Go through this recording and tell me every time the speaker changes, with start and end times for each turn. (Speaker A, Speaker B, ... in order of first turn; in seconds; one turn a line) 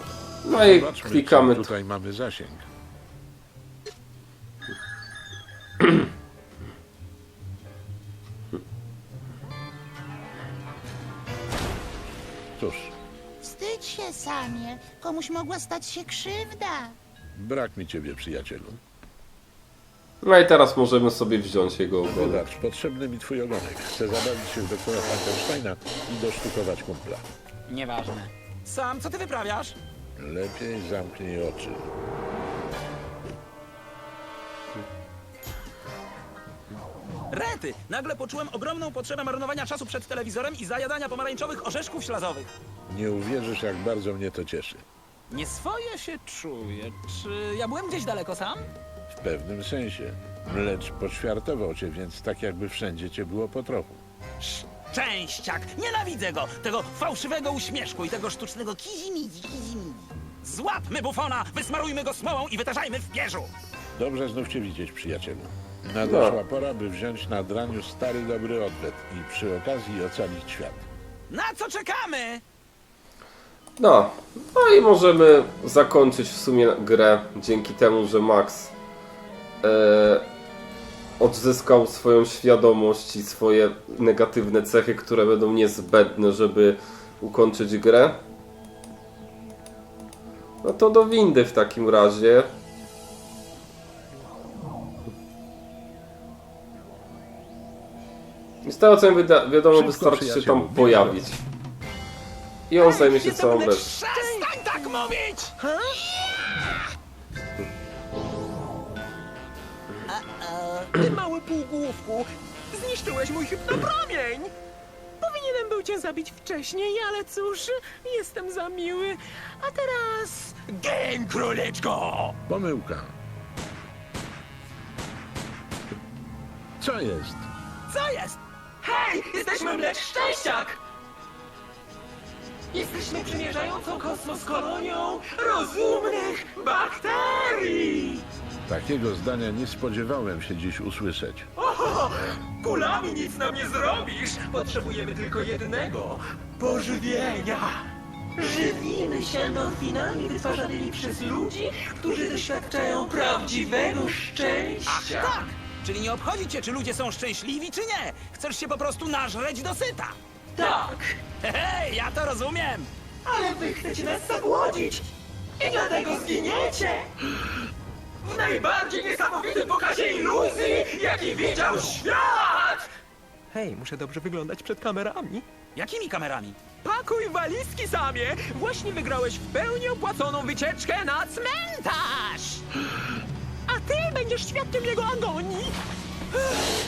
Speaker A: 0.4-1.7
Speaker B: 0.5-2.7
Speaker B: 12.6-12.9
Speaker C: 13.4-16.9
Speaker B: 17.3-18.8
Speaker A: 20.2-22.4
Speaker B: 22.0-27.2
Speaker D: 27.7-29.8
Speaker B: 30.2-31.8
Speaker D: 37.3-42.5
Speaker B: 42.9-44.8
Speaker D: 45.3-48.7
Speaker B: 49.1-54.0
Speaker D: 54.4-63.5
Speaker B: 64.0-70.9
Speaker A: 66.0-66.4
Speaker D: 71.3-72.4
Speaker A: 73.8-78.7
Speaker A: 79.6-80.3
Speaker A: 81.2-88.2
Speaker A: 90.6-92.5
Speaker A: 98.6-101.4
Speaker B: 99.7-101.2
Speaker A: 102.7-104.0
Speaker D: 102.8-105.5
Speaker E: 104.1-104.5
Speaker E: 105.6-106.2
Speaker D: 110.1-111.0
Speaker E: 110.9-114.5
Speaker E: 115.2-122.3
Speaker B: 122.5-123.1
Speaker B: 126.8-127.5
Speaker D: 127.9-128.3
Speaker E: 128.8-130.8
Speaker E: 132.7-138.2
Speaker B: 138.7-141.5
Speaker E: 141.6-147.8
Speaker E: 148.4-155.5
Speaker D: 154.8-160.2
Speaker E: 160.6-161.2
Speaker D: 161.4-162.9
Speaker E: 163.2-167.1
Speaker E: 168.2-172.8
Speaker E: 173.5-175.4
Speaker D: 175.7-176.6
Speaker E: 176.8-182.6
Speaker E: 183.7-185.8